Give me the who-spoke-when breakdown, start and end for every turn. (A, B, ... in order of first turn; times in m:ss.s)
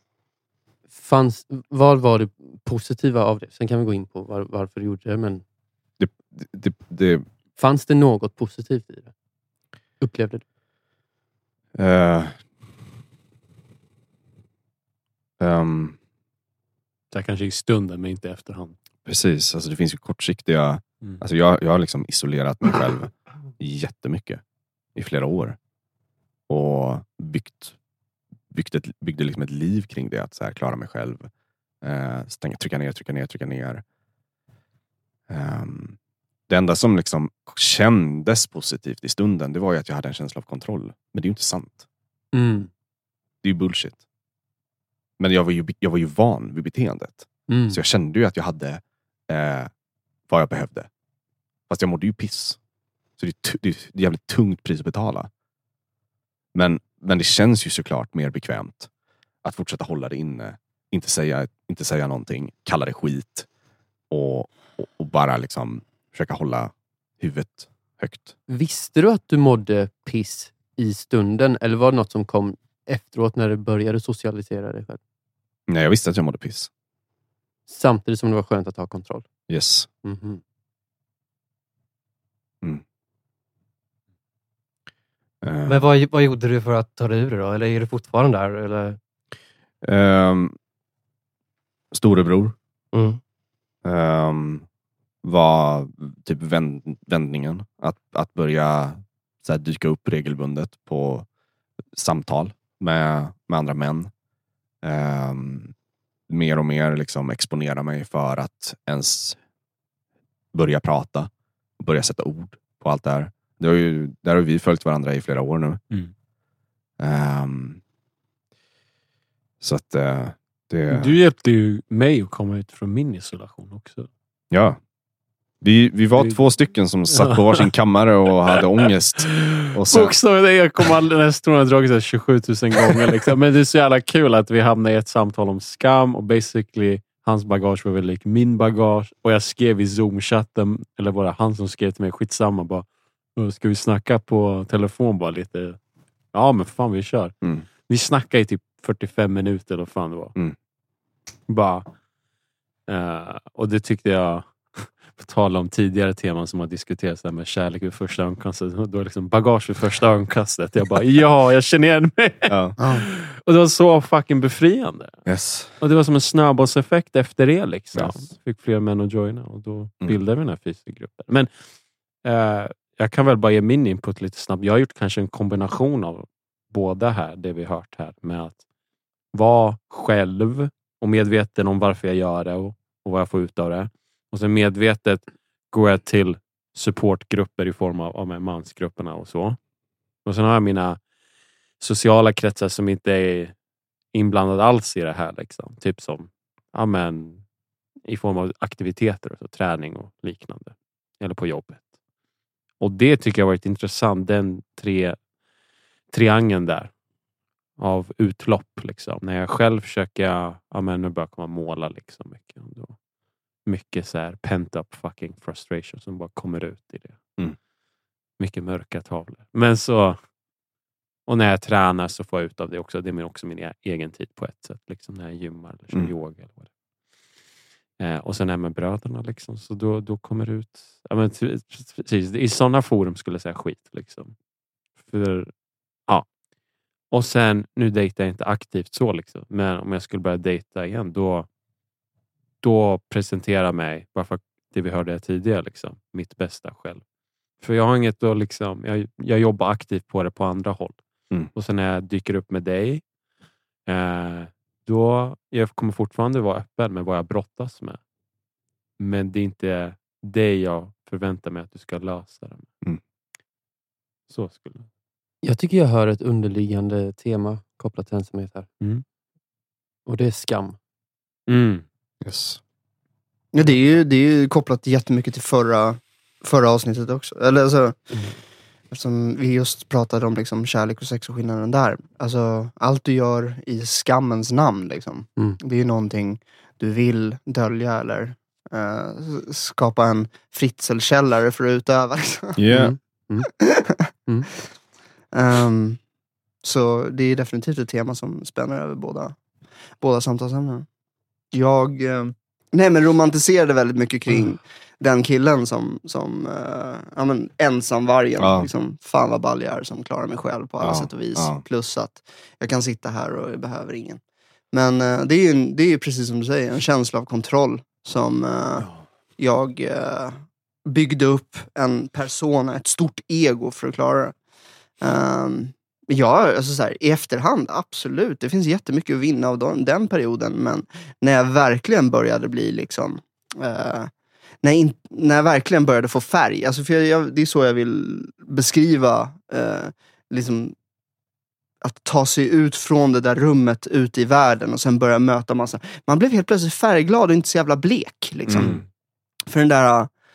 0:00.9-0:05.4 A
0:06.0-0:07.2 B
0:07.6-0:09.1 A
0:10.0-0:10.4 A
0:11.7-0:12.4 B
0:15.4-0:16.0 B
0:17.1-0:18.8 C
0:19.0-0:24.4 B
0:25.0-0:25.6 B
0:26.5-0:27.7 B
0:28.5-0:31.3 B
0:31.8-0:33.8 B
0:35.3-0:36.0 B
0:36.5-0:41.8 B
0:42.3-0:42.7 A
0:43.4-0:44.0 B
0:45.2-0:49.7 B
0:47.5-0:47.8 A
0:50.3-0:50.9 B
0:51.7-0:52.6 B
0:53.2-0:55.3 B
0:56.5-0:58.9 B
0:59.4-1:03.5 B
1:04.1-1:08.3 B
1:08.5-1:15.0 A
1:15.7-1:16.7 B
1:17.7-1:19.3 A
1:19.5-1:19.9 B
1:20.0-1:20.4 A
1:25.4-1:25.8 B
1:25.6-1:29.0 D
1:29.8-1:30.6 B
1:31.9-1:32.5 B
1:32.9-1:33.2 D
1:33.8-1:34.6 B
1:35.2-1:41.2 B
1:41.9-1:44.1 B
1:44.8-1:45.7 B
1:46.3-1:49.4 B
1:50.5-1:55.8 B
1:57.0-1:57.8 B
1:59.6-2:01.2 B
2:00.9-2:04.1 C
2:04.5-2:04.8 B
2:05.6-2:10.1 B
2:07.1-2:07.6 C
2:09.2-2:25.8 C
2:26.3-2:30.3 C
2:31.5-2:31.8 C
2:32.9-2:45.2 C
2:42.5-2:42.8 B
2:42.8-2:43.0 E
2:45.2-2:45.8 B
2:45.8-2:51.5 C
2:47.9-2:48.2 B
2:52.2-2:58.6 C
2:59.3-3:09.6 C
3:10.2-3:11.0 C
3:11.8-3:13.5 C
3:14.1-3:17.4 C
3:18.0-3:21.8 C
3:22.8-3:25.2 C
3:26.1-3:26.9 C
3:27.8-3:33.0 C
3:33.6-3:37.2 C
3:38.4-3:40.2 C
3:41.3-3:46.7 C
3:48.0-3:54.3 C
3:55.0-3:55.5 C
3:57.1-4:01.5 C
4:02.6-4:07.0 C
4:07.6-4:11.0 C
4:11.5-4:13.0 C
4:13.8-4:18.0 C
4:19.0-4:22.7 C
4:24.3-4:24.9 C
4:25.4-4:28.7 A
4:30.0-4:30.8 A
4:31.5-4:31.8 C
4:32.2-4:32.6 B
4:33.5-4:38.1 E
4:38.9-4:52.6 E
4:52.6-4:53.0 B
4:52.7-4:53.5 A
4:53.4-4:54.1 E
4:55.3-4:56.0 E
4:56.6-4:59.3 E
5:00.0-5:00.8 E
5:01.5-5:14.2 E
5:08.4-5:08.7 B
5:10.8-5:11.6 B
5:14.7-5:24.3 E
5:25.0-5:34.1 E
5:34.6-5:40.7 E
5:41.8-5:48.8 E
5:48.5-5:48.8 B
5:49.5-5:50.1 E